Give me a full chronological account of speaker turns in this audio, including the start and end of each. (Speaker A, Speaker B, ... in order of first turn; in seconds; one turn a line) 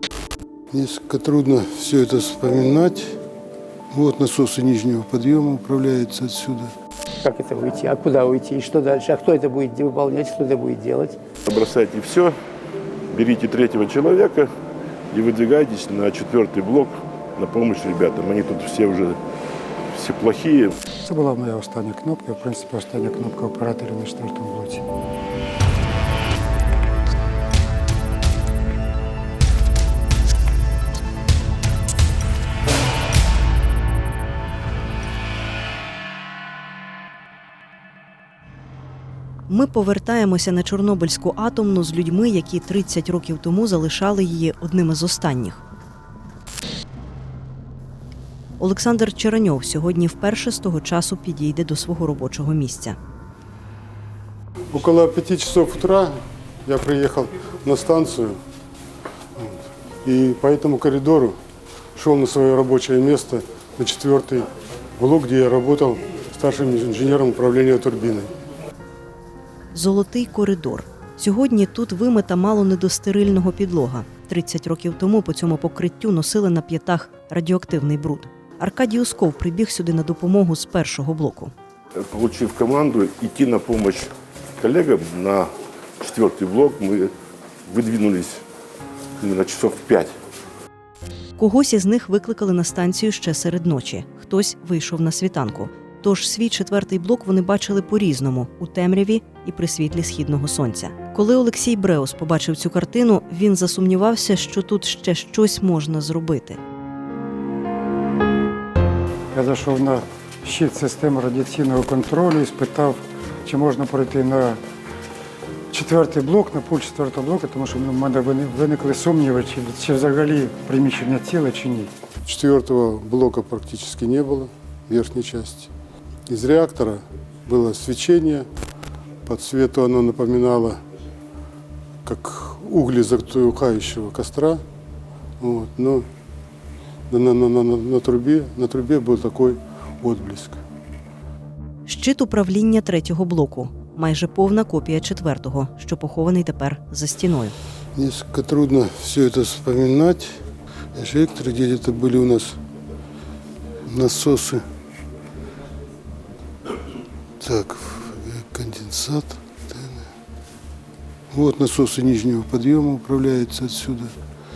Speaker A: 0.7-3.2
Speaker A: 3.9-6.7
Speaker B: 7.2-11.2
Speaker C: 11.4-12.4
Speaker C: 13.1-14.5
Speaker C: 15.1-19.2
Speaker C: 19.9-20.8
Speaker D: 21.0-24.9
Speaker E: 39.5-45.6
Speaker E: 48.6-53.0
Speaker A: 54.7-58.4
Speaker A: 59.4-61.4
Speaker A: 62.0-64.5
Speaker A: 65.0-68.3
Speaker E: 69.7-81.5
Speaker C: 82.0-87.1
Speaker C: 87.7-88.4
Speaker C: 89.2-90.1
Speaker E: 91.4-106.6
Speaker D: 109.3-114.6
Speaker D: 115.7-121.9
Speaker A: 122.2-125.7
Speaker A: 126.3-128.5
Speaker A: 129.3-130.8
Speaker A: 132.1-134.6
Speaker A: 135.4-136.1
Speaker A: 137.1-140.6
Speaker E: 141.9-147.6
Speaker A: 147.9-150.4
Speaker A: 150.9-152.6
Speaker A: 153.9-154.6
Speaker A: 157.4-160.1
Speaker A: 161.3-164.2